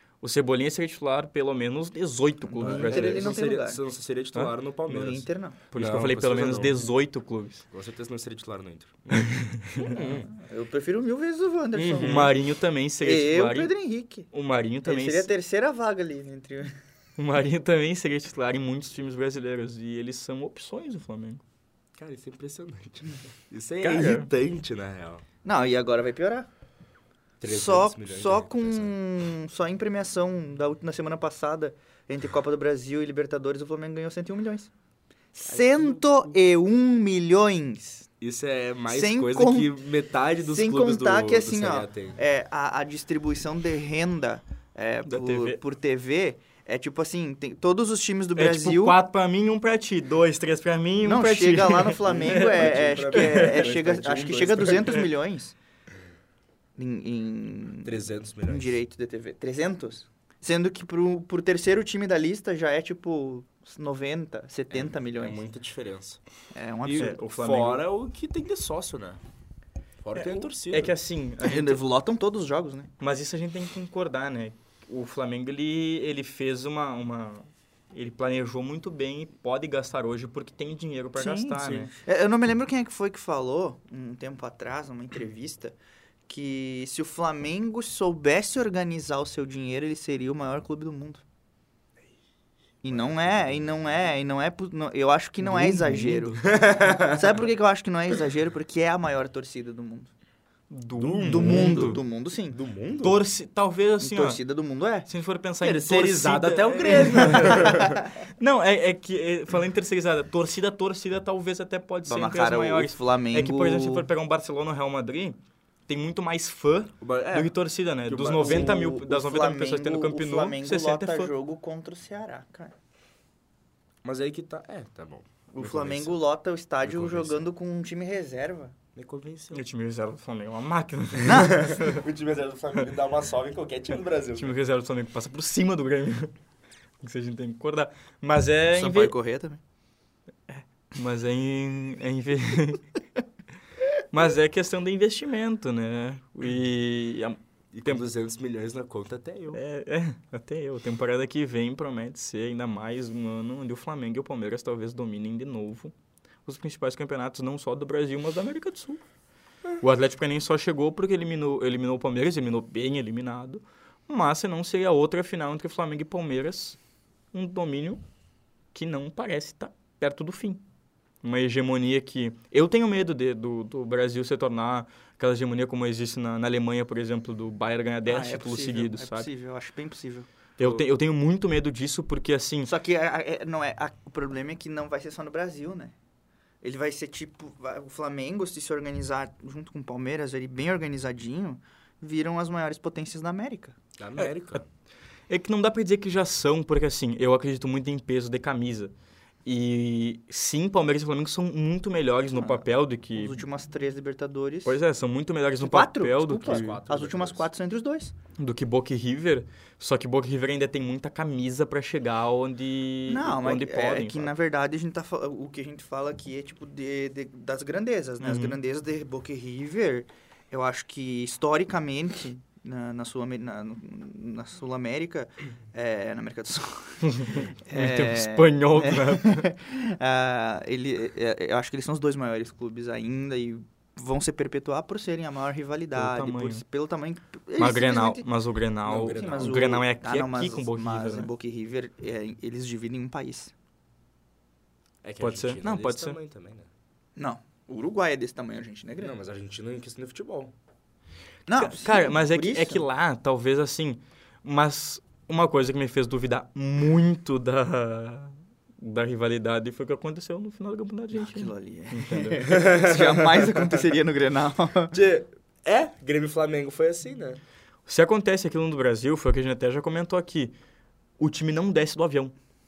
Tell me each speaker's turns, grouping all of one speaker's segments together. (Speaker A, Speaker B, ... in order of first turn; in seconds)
Speaker A: 0.2-3.4, 5.7-7.6, 9.1-10.0, 12.0-13.7, 14.3-15.3, 17.2-21.4, 23.8-24.3, 45.0-45.6, 48.4-53.6, 66.9-67.8, 70.2-71.8, 73.0-81.9, 95.6-96.2, 100.7-102.0, 103.0-104.4, 105.1-121.3, 129.5-132.0, 134.3-136.3, 137.0-139.1, 140.5-142.8, 144.1-148.0, 149.5-155.9, 156.4-159.0, 159.8-166.8, 167.3-168.0, 168.7-170.6, 171.2-179.3, 180.6-182.7, 194.2-194.6, 195.3-198.9, 199.4-203.4, 204.6-206.8, 208.4-214.3, 218.2-218.6, 227.0-229.4, 235.9-236.6, 237.6-241.3, 245.2-246.2, 251.6-262.5, 267.9-270.5, 271.2-272.3
Speaker B: 2.5-3.8, 4.8-5.6, 9.8-12.4, 13.0-14.3, 14.8-16.7, 25.4-26.5, 27.4-34.7, 35.3-38.1, 38.9-39.8, 40.4-49.0, 51.0-55.5, 56.8-65.4, 66.5-67.2, 71.4-72.9, 81.2-85.8, 86.3-91.2, 92.8-96.4, 97.0-100.1, 101.2-102.6, 104.0-105.1, 106.8-108.0, 112.1-114.1, 118.3-122.7, 125.5-128.7, 131.2-131.6, 138.7-139.6, 178.0-180.3, 182.6-185.9, 186.6-193.7, 202.3-204.8, 205.6-208.1, 213.1-238.2, 239.0-243.5, 247.2-249.1, 251.5-252.8, 261.1-264.9
Speaker C: 2.6-6.8, 7.7-10.3, 11.7-12.3, 21.9-25.2, 27.4-28.9, 35.6-36.0, 38.2-42.2, 52.0-55.1, 57.8-58.8, 64.7-66.2, 66.8-69.2, 70.0-70.9, 92.9-93.6, 95.4-97.4, 101.0-103.2, 105.6-108.0, 117.0-117.5, 118.1-118.8, 124.0-126.2, 126.8-127.5, 128.9-129.6, 131.2-134.5, 147.7-149.6, 194.0-194.7, 206.4-207.5, 238.8-239.7, 245.0-246.7, 249.0-250.5, 262.4-263.7, 264.9-267.4